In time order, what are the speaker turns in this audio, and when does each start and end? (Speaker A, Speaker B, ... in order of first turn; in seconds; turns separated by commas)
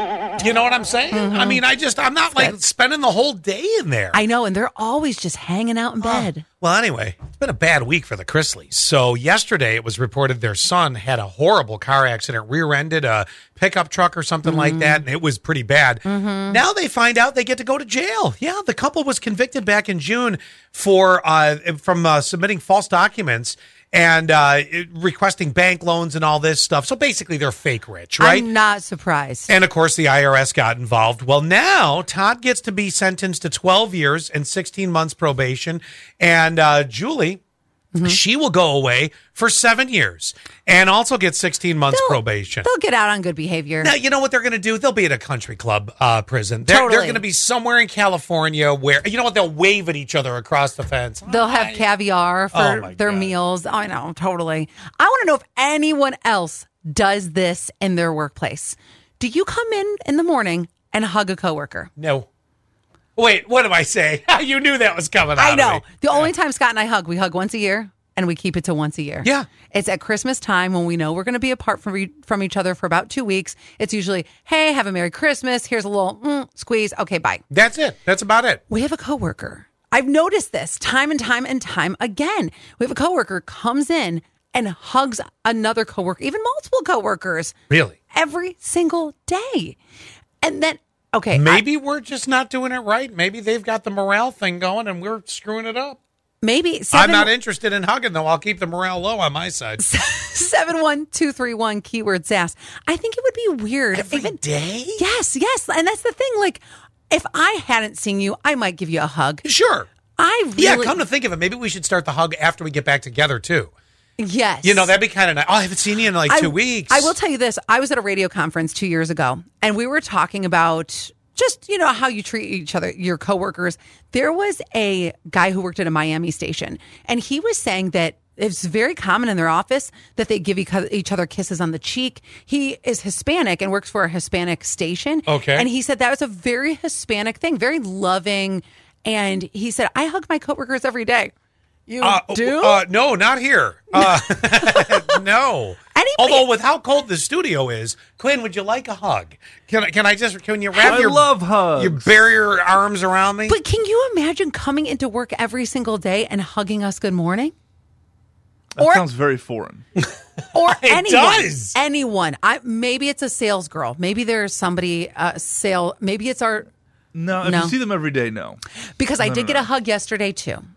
Speaker A: 0.4-4.2, Speaker B: 1.1-1.6, Speaker B: 4.1-6.5, Speaker A: 6.0-28.5, Speaker B: 14.4-15.0, Speaker B: 16.1-16.6, Speaker B: 28.2-29.5, Speaker A: 29.5-37.4, Speaker B: 37.9-38.2, Speaker A: 38.0-42.7, Speaker B: 41.9-43.9, Speaker A: 43.8-51.9, Speaker B: 46.6-47.2, Speaker B: 51.3-61.9, Speaker A: 52.5-53.3, Speaker A: 62.0-62.3, Speaker A: 63.2-66.3, Speaker B: 65.4-77.4, Speaker A: 77.5-78.6, Speaker B: 78.7-87.5, Speaker A: 87.7-88.0, Speaker B: 88.1-89.8, Speaker B: 90.4-91.6, Speaker A: 91.3-96.0, Speaker B: 96.4-97.3, Speaker A: 96.9-99.8, Speaker B: 99.8-104.4, Speaker A: 103.9-105.0, Speaker B: 105.0-109.4, Speaker A: 109.4-109.9, Speaker B: 110.2-111.0, Speaker A: 110.6-113.7, Speaker B: 114.2-114.9, Speaker A: 114.6-117.1, Speaker B: 116.3-141.3, Speaker A: 135.3-135.7, Speaker B: 141.9-142.8, Speaker A: 142.0-153.6, Speaker B: 143.9-145.2, Speaker B: 145.9-146.5, Speaker C: 150.8-152.1, Speaker B: 153.5-157.5, Speaker C: 158.8-159.8, Speaker B: 158.8-159.1, Speaker B: 160.5-166.7, Speaker A: 160.6-161.8, Speaker C: 167.1-168.6, Speaker B: 167.4-167.8, Speaker B: 169.0-170.6, Speaker C: 169.2-169.6